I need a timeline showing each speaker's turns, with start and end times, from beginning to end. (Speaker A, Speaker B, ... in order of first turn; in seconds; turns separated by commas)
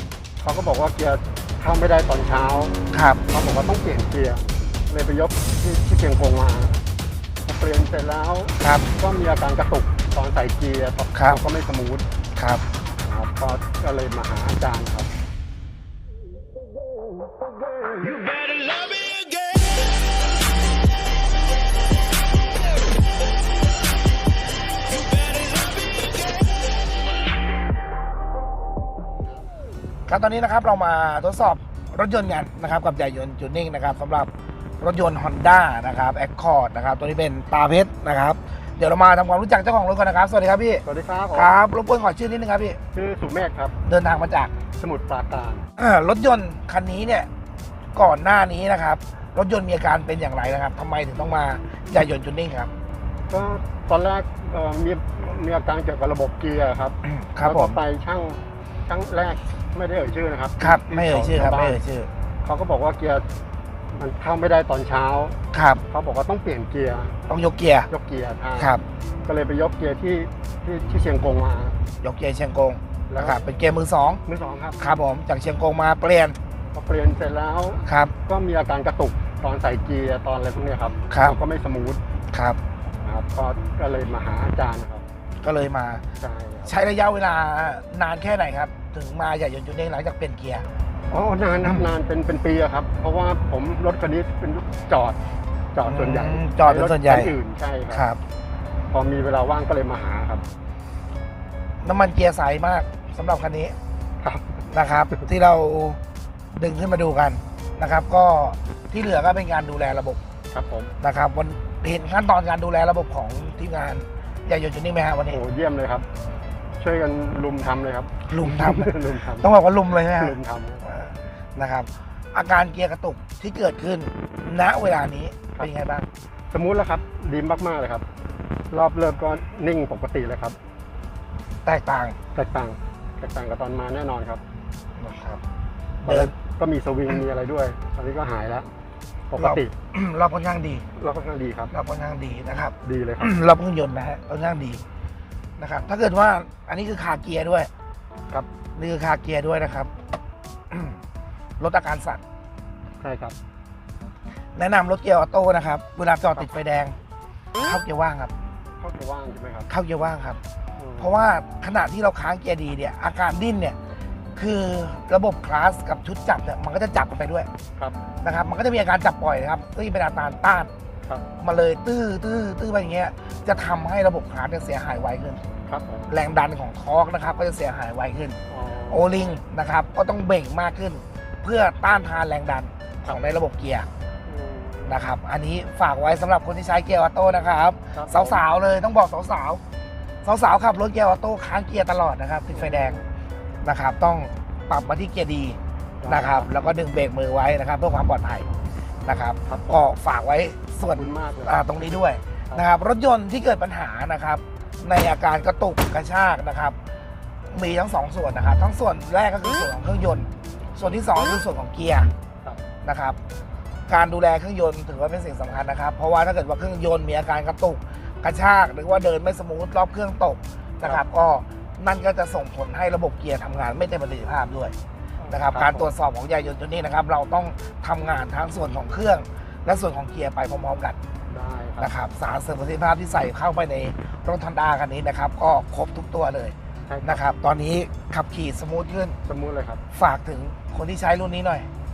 Speaker A: 0.4-2.7, Speaker B: 2.9-3.2, Speaker A: 3.3-6.8, Speaker A: 7.5-12.0, Speaker B: 8.6-8.9, Speaker B: 11.1-11.4, Speaker B: 12.4-12.6, Speaker A: 13.0-15.1, Speaker B: 30.1-34.3, Speaker B: 34.8-42.8, Speaker A: 40.8-41.6, Speaker A: 42.9-43.8, Speaker B: 43.8-44.5, Speaker A: 44.8-45.7, Speaker B: 45.8-47.3, Speaker B: 47.9-52.7, Speaker A: 53.3-61.8, Speaker B: 57.0-57.8, Speaker B: 60.6-62.1, Speaker A: 62.4-63.2, Speaker A: 63.9-65.4, Speaker B: 65.5-65.8, Speaker A: 65.9-67.1, Speaker B: 67.3-67.9, Speaker A: 67.9-71.8, Speaker B: 68.6-68.8, Speaker B: 72.0-74.2, Speaker A: 73.1-73.4, Speaker A: 74.2-74.8, Speaker B: 74.8-76.4, Speaker A: 76.7-82.0, Speaker B: 77.8-78.1, Speaker B: 81.1-81.4, Speaker B: 82.3-82.6, Speaker A: 83.0-85.0, Speaker B: 85.4-86.0, Speaker A: 86.2-86.8, Speaker B: 86.7-90.7, Speaker A: 91.1-95.2, Speaker A: 95.7-98.0, Speaker B: 95.8-97.3, Speaker B: 97.9-98.2, Speaker A: 98.9-100.4, Speaker B: 101.8-103.7, Speaker A: 104.2-105.3, Speaker B: 104.7-106.0, Speaker B: 106.5-110.2, Speaker A: 110.5-110.9, Speaker B: 111.0-115.4, Speaker A: 115.3-116.1, Speaker A: 116.8-120.9, Speaker B: 118.3-126.1, Speaker A: 126.5-128.1, Speaker A: 128.7-130.6, Speaker B: 131.6-132.2, Speaker A: 132.3-134.4, Speaker B: 135.0-135.4, Speaker B: 136.0-136.3, Speaker A: 136.0-138.7, Speaker A: 139.3-139.7, Speaker B: 139.3-140.8, Speaker A: 141.0-141.7, Speaker B: 141.7-144.8, Speaker A: 142.8-143.4, Speaker B: 145.6-147.7, Speaker B: 148.8-149.9, Speaker B: 150.7-151.0, Speaker B: 151.6-152.2, Speaker A: 153.0-153.3, Speaker B: 154.6-156.9, Speaker B: 157.6-158.3, Speaker A: 158.8-159.7, Speaker B: 159.7-160.4, Speaker A: 160.8-161.1, Speaker B: 161.0-163.8, Speaker B: 164.3-167.5, Speaker B: 168.2-170.7, Speaker B: 171.4-175.4, Speaker A: 175.6-176.1, Speaker B: 176.1-178.4, Speaker A: 178.5-179.4, Speaker B: 178.9-183.9, Speaker A: 184.2-185.0, Speaker B: 184.8-189.6, Speaker A: 187.9-188.4, Speaker B: 190.2-193.0, Speaker A: 192.5-193.1, Speaker B: 193.6-198.5, Speaker A: 196.0-196.8, Speaker B: 199.0-206.8, Speaker A: 199.4-199.9, Speaker A: 200.9-201.6, Speaker B: 207.5-212.1, Speaker B: 212.8-213.2, Speaker B: 213.9-224.7, Speaker A: 225.2-225.9, Speaker B: 225.3-231.0, Speaker A: 231.3-231.9, Speaker B: 231.8-239.2, Speaker A: 236.9-237.2, Speaker A: 239.3-239.8, Speaker B: 239.9-241.7